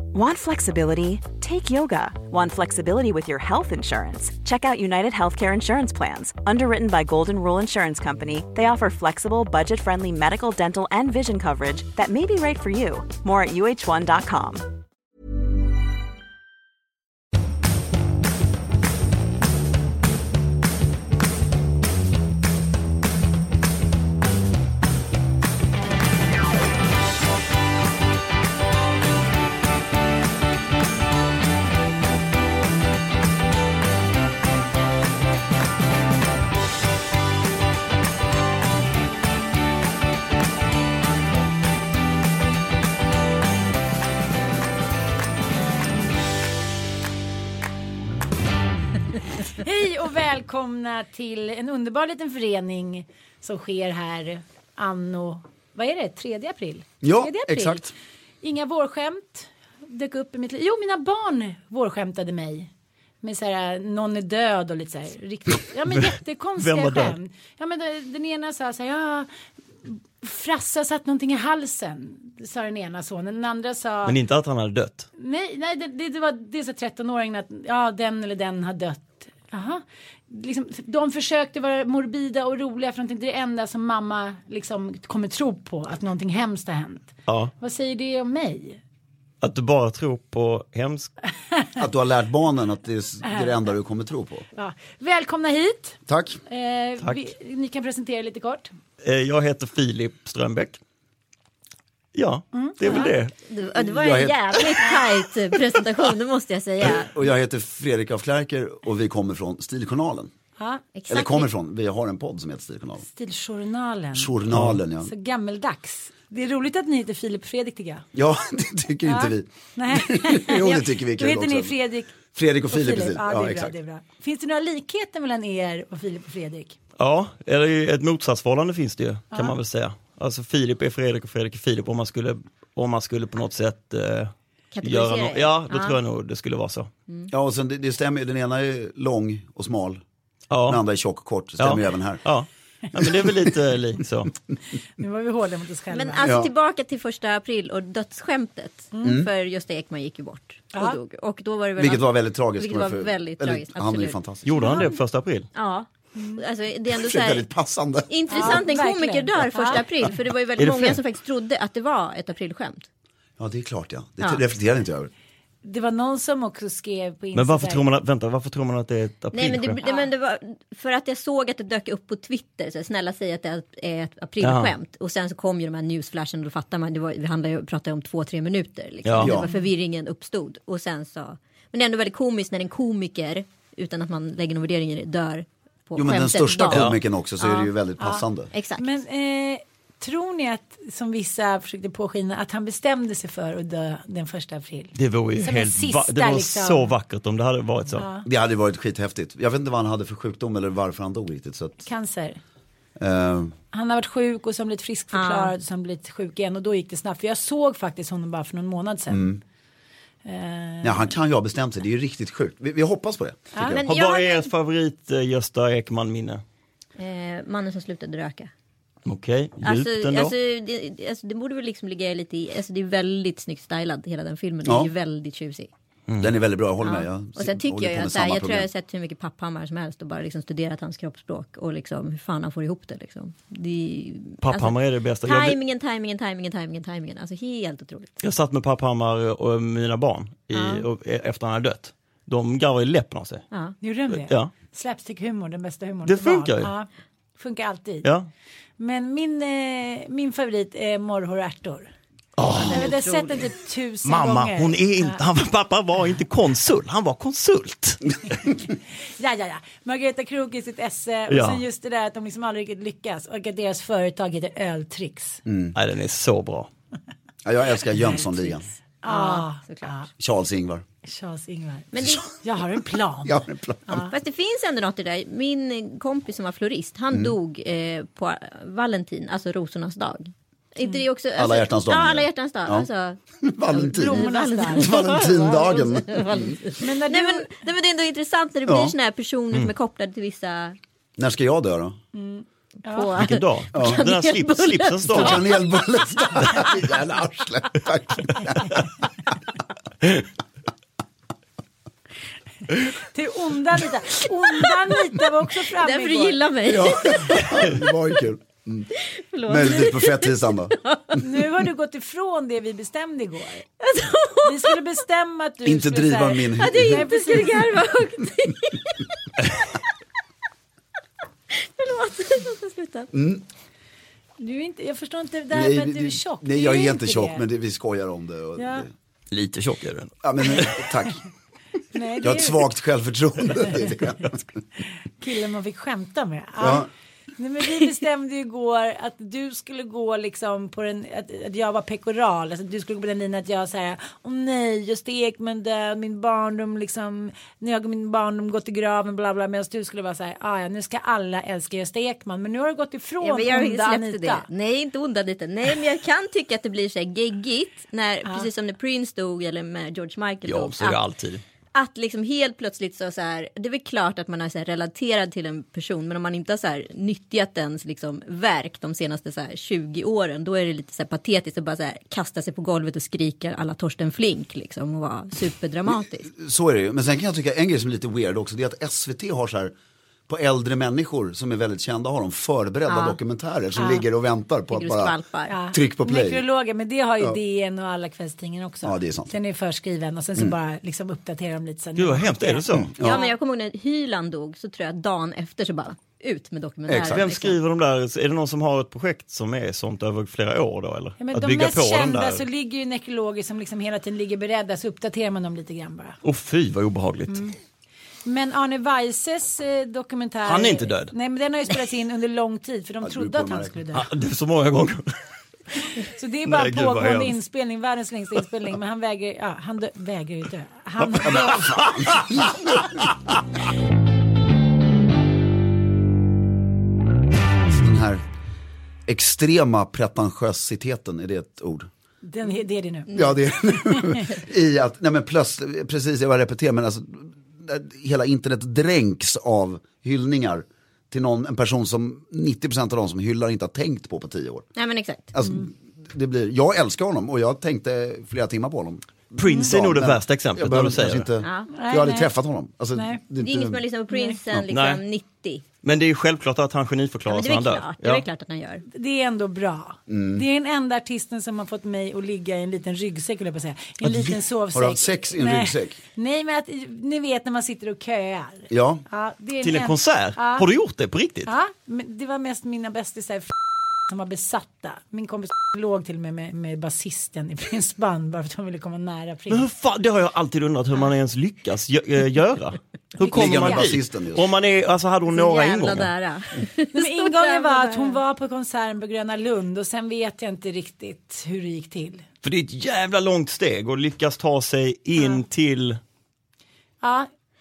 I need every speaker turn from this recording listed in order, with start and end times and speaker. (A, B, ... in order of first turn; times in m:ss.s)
0:00.1-0:14.7 A
0:49.5-0:57.9 B
0:57.0-0:57.9 C
0:58.4-1:02.7 B
1:03.2-1:09.3 B
1:06.6-1:07.2 D
1:09.8-1:14.2 B
1:14.0-1:15.1 D
1:15.2-1:28.8 B
1:27.3-1:27.5 D
1:29.4-1:31.1 D
1:31.8-1:34.4 C
1:33.2-1:33.6 B
1:34.6-1:38.7 B
1:36.1-1:36.4 C
1:37.0-1:37.3 D
1:39.0-1:40.8 D
1:42.1-1:43.3 D
1:42.5-1:43.1 B
1:42.9-1:47.1 E
1:43.7-1:44.8 C
1:46.8-1:50.3 C
1:50.6-1:50.8 B
1:51.0-1:51.5 E
1:51.1-1:53.0 C
1:53.0-1:54.4 B
1:54.1-1:55.1 C
1:54.5-1:54.8 D
1:55.0-1:58.0 B
1:58.1-2:01.7 C
1:59.1-2:02.1 B
2:02.3-2:03.7 C
2:02.7-2:06.8 B
2:07.0-2:14.3 D
2:14.7-2:16.0 E
2:14.8-2:16.9 D
2:17.3-2:20.0 C
2:20.5-2:20.8 D
2:20.6-2:22.2 C
2:21.6-2:24.3 D
2:23.3-2:23.5 C
2:25.0-2:26.2 B
2:25.9-2:34.9 E
2:26.2-2:26.5 C
2:29.0-2:29.3 C
2:31.8-2:34.7 C
2:34.4-2:35.5 D
2:35.6-2:37.4 E
2:36.1-2:36.4 B
2:36.9-2:38.6 C
2:38.1-2:42.8 E
2:38.3-2:39.8 B
2:40.6-2:41.0 D
2:43.4-2:45.1 C
2:45.6-2:47.8 B
2:47.3-2:49.8 D
2:49.4-3:06.9 E
2:54.4-2:54.7 D
2:59.0-2:59.4 D
2:59.2-2:59.5 C
2:59.2-2:59.7 B
3:06.0-3:08.5 C
3:06.7-3:07.0 D
3:07.6-3:08.2 B
3:08.5-3:08.9 E
3:08.8-3:17.0 B
3:14.9-3:18.1 D
3:17.9-3:18.2 B
3:18.2-3:21.8 C
3:21.9-3:22.4 B
3:23.0-3:23.6 C
3:23.7-3:29.2 B
3:25.1-3:25.5 E
3:29.1-3:29.4 C
3:30.2-3:31.1 B
3:30.8-3:33.8 C
3:33.5-3:33.8 B
3:33.6-3:34.5 E
3:33.9-3:36.4 D
3:37.0-3:38.5 E
3:39.1-3:40.4 D
3:39.6-3:45.7 E
3:44.6-3:44.9 C
3:46.1-3:46.4 D
3:46.2-3:48.7 C
3:46.8-3:54.8 E
3:54.4-3:55.6 D
3:55.2-3:58.2 E
3:58.2-4:03.4 D
4:00.5-4:00.9 E
4:03.8-4:08.1 B
4:04.2-4:04.5 D
4:06.0-4:06.7 D
4:08.8-4:11.9 B
4:12.4-4:12.9 D
4:12.6-4:13.4 E
4:12.7-4:15.2 B
4:14.0-4:18.5 D
4:19.2-4:25.4 B
4:21.3-4:21.6 D
4:25.5-4:25.8 C
4:25.8-4:26.7 D
4:27.4-4:28.7 C
4:28.0-4:28.5 B
4:29.0-4:30.1 B
4:29.1-4:29.9 E
4:30.2-4:30.8 C
4:31.0-4:33.4 B
4:31.9-4:32.3 E
4:33.2-4:34.1 C
4:33.9-4:43.2 E
4:41.4-4:42.9 C
4:43.4-4:46.6 C
4:43.7-4:50.8 E
4:43.7-4:44.9 B
4:46.8-4:47.5 B
4:48.7-4:48.9 C
4:51.2-4:52.0 C
4:52.1-4:53.2 B
4:52.9-4:55.5 E
4:53.2-4:55.5 D
4:53.8-4:54.0 C
4:55.1-4:58.8 C
4:56.4-4:56.7 E
5:02.9-5:06.4 B
5:05.7-5:07.9 E
5:06.7-5:08.9 C
5:09.0-5:11.4 E
5:09.4-5:10.8 C
5:11.2-5:13.7 B
5:13.8-5:14.8 E
5:14.4-5:17.7 B
5:15.6-5:17.1 C
5:16.6-5:19.4 E
5:21.5-5:23.1 E
5:23.1-5:23.4 C
5:24.4-5:27.4 B
5:25.5-5:28.9 C
5:28.6-5:28.8 B
5:29.3-5:30.9 D
5:30.2-5:31.2 C
5:31.9-5:32.7 B
5:32.2-5:34.6 C
5:35.2-5:54.5 B
5:36.6-5:36.9 C
5:53.2-6:01.0 E
6:00.4-6:01.4 D
6:01.7-6:16.3 E
6:16.3-6:19.8 C
6:20.3-6:25.2 C
6:22.9-6:23.2 E
6:23.8-6:24.0 B
6:24.7-6:25.6 E
6:25.5-6:33.3 B
6:25.7-6:26.4 C
6:28.8-6:29.3 C
6:32.0-6:32.9 D
6:32.7-6:33.2 C
6:33.0-6:37.6 E
6:36.9-6:37.3 C
6:36.9-6:42.4 D
6:41.2-6:46.2 B
6:46.2-6:47.5 D
6:47.3-6:47.5 B
6:48.2-6:54.1 B
6:50.5-6:51.1 D
6:53.0-6:53.8 C
6:53.9-6:55.1 D
6:56.0-7:01.8 B
6:56.4-6:57.4 D
7:01.0-7:03.0 C
7:01.8-7:03.1 D
7:07.6-7:08.2 C
7:09.1-7:11.9 C
7:12.2-7:14.3 B
7:13.1-7:24.7 C
7:24.8-7:25.3 E
7:25.3-7:33.8 C
7:25.4-7:25.7 B
7:29.4-7:31.3 D
7:31.4-7:31.7 E
7:31.7-7:32.3 B
7:32.9-7:33.2 B
7:33.4-7:35.6 E
7:34.1-7:34.4 B
7:34.5-7:35.0 D
7:35.8-7:38.2 D
7:37.2-7:38.8 E
7:38.9-7:50.7 B
7:40.1-7:40.4 C
7:44.0-7:46.0 C
7:48.7-7:49.0 C
7:49.6-7:51.5 D
7:51.5-7:53.5 B
7:54.1-7:59.7 B
7:59.5-8:06.1 D
8:03.2-8:03.9 B
8:03.3-8:04.5 C
8:05.3-8:08.2 E
8:06.9-8:12.2 B
8:12.4-8:16.0 D
8:17.0-8:17.3 B